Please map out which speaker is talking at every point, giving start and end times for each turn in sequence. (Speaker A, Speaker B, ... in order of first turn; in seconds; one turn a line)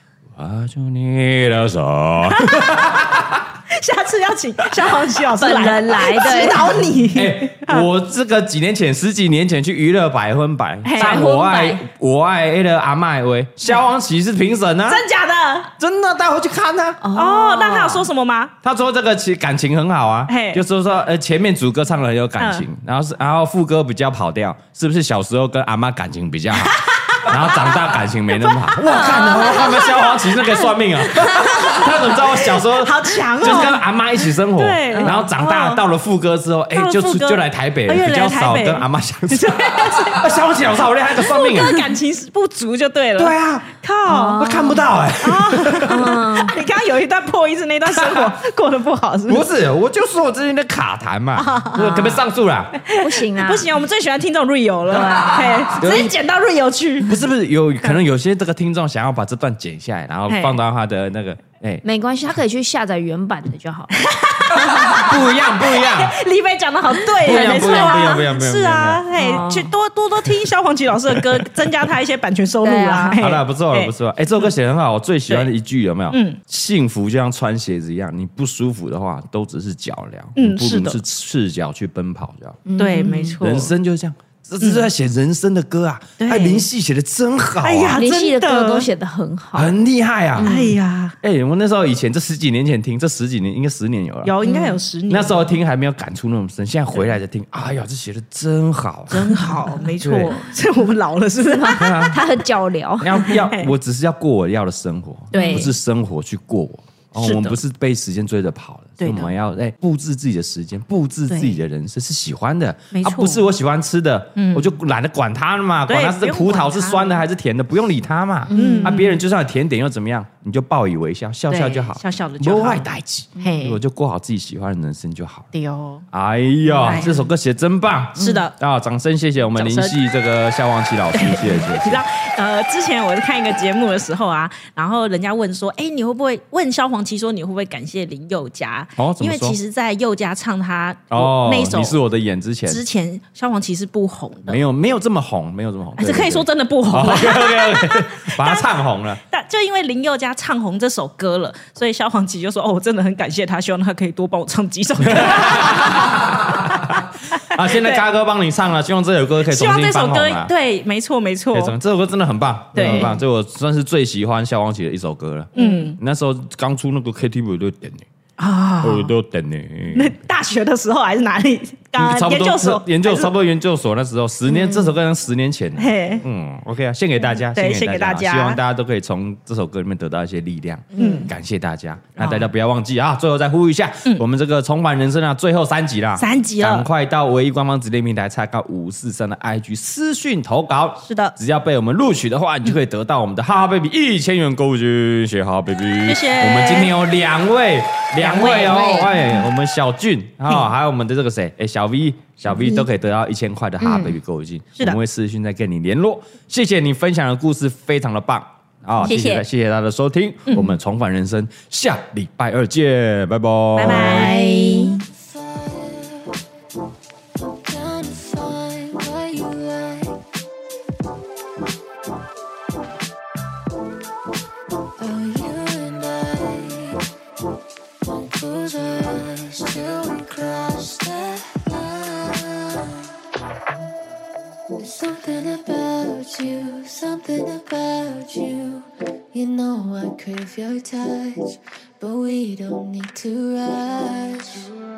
Speaker A: 0.4-3.5
Speaker B: 2.3-2.9
Speaker B: 3.7-7.9
Speaker C: 5.4-6.8
Speaker A: 7.1-15.0
Speaker B: 10.8-11.2
Speaker C: 10.9-11.8
Speaker B: 14.9-15.7
Speaker A: 15.8-17.0
Speaker C: 17.0-18.1
Speaker B: 17.1-18.5
Speaker A: 18.6-41.8
Speaker B: 20.3-20.6
Speaker B: 22.4-22.7
Speaker B: 26.6-35.8
Speaker C: 28.9-29.9
Speaker C: 34.9-35.2
Speaker B: 36.7-40.3
Speaker B: 41.1-44.5
Speaker A: 43.2-43.7
Speaker C: 44.1-44.9
Speaker A: 44.4-46.1
Speaker B: 45.2-49.5
Speaker C: 45.7-46.6
Speaker A: 47.9-48.3
Speaker A: 49.3-52.8
Speaker B: 51.4-52.2
Speaker C: 51.8-52.2
Speaker B: 52.9-57.2
Speaker C: 52.9-53.7
Speaker C: 54.9-55.8
Speaker A: 55.8-56.1
Speaker A: 57.0-61.8
Speaker B: 60.3-60.6
Speaker C: 61.8-64.0
Speaker B: 63.9-73.9
Speaker C: 64.5-65.1
Speaker A: 64.7-66.2
Speaker C: 67.1-68.3
Speaker A: 67.2-69.0
Speaker C: 69.1-69.7
Speaker C: 72.6-73.2
Speaker A: 73.2-82.6
Speaker B: 76.1-76.4
Speaker B: 80.4-81.0
Speaker C: 82.7-83.4
Speaker B: 82.8-83.7
Speaker A: 83.4-88.0
Speaker B: 84.6-84.9
Speaker B: 86.2-86.7
Speaker B: 87.6-88.9
Speaker C: 87.9-89.8
Speaker A: 89.5-90.5
Speaker C: 90.4-90.8
Speaker B: 90.4-91.2
Speaker A: 91.2-94.3
Speaker B: 94.2-95.5
Speaker C: 94.4-94.8
Speaker A: 95.1-100.3
Speaker B: 99.1-102.2
Speaker C: 101.4-103.4
Speaker A: 101.8-102.2
Speaker A: 103.0-125.5
Speaker B: 103.2-103.7
Speaker B: 105.3-105.7
Speaker C: 105.3-105.7
Speaker B: 107.2-107.6
Speaker B: 109.0-109.3
Speaker B: 111.3-111.6
Speaker B: 112.9-113.5
Speaker B: 114.4-114.7
Speaker B: 115.9-117.2
Speaker C: 118.5-119.2
Speaker B: 118.5-119.1
Speaker B: 121.5-123.8
Speaker B: 125.5-126.0
Speaker A: 126.1-132.0
Speaker B: 126.8-127.2
Speaker C: 128.2-128.4
Speaker B: 128.2-128.6
Speaker B: 129.5-130.0
Speaker B: 131.1-142.0
Speaker A: 139.0-139.6
Speaker A: 141.1-142.8
Speaker B: 142.7-144.6
Speaker A: 144.5-149.2
Speaker B: 146.0-148.7
Speaker B: 149.2-157.0
Speaker A: 155.1-160.5
Speaker B: 157.6-158.1
Speaker B: 159.5-161.8
Speaker A: 161.5-168.1
Speaker B: 162.7-163.1
Speaker C: 162.8-163.1
Speaker B: 165.6-166.0
Speaker B: 168.4-169.1
Speaker A: 168.8-170.2
Speaker B: 169.9-173.3
Speaker A: 172.0-214.4
Speaker C: 174.5-175.0
Speaker B: 175.8-176.2
Speaker B: 177.5-178.6
Speaker C: 180.9-181.3
Speaker B: 181.0-181.3
Speaker B: 182.2-182.5
Speaker B: 186.2-186.9
Speaker B: 191.0-191.4
Speaker B: 196.1-196.9
Speaker B: 198.2-199.2
Speaker C: 198.7-199.2
Speaker C: 203.8-204.2
Speaker B: 209.1-209.4
Speaker B: 210.5-210.8
Speaker B: 213.8-215.0
Speaker C: 213.8-215.0
Speaker D: 215.1-216.4
Speaker D: 217.4-220.2
Speaker D: 225.0-227.1
Speaker D: 228.0-233.1
Speaker D: 234.8-244.8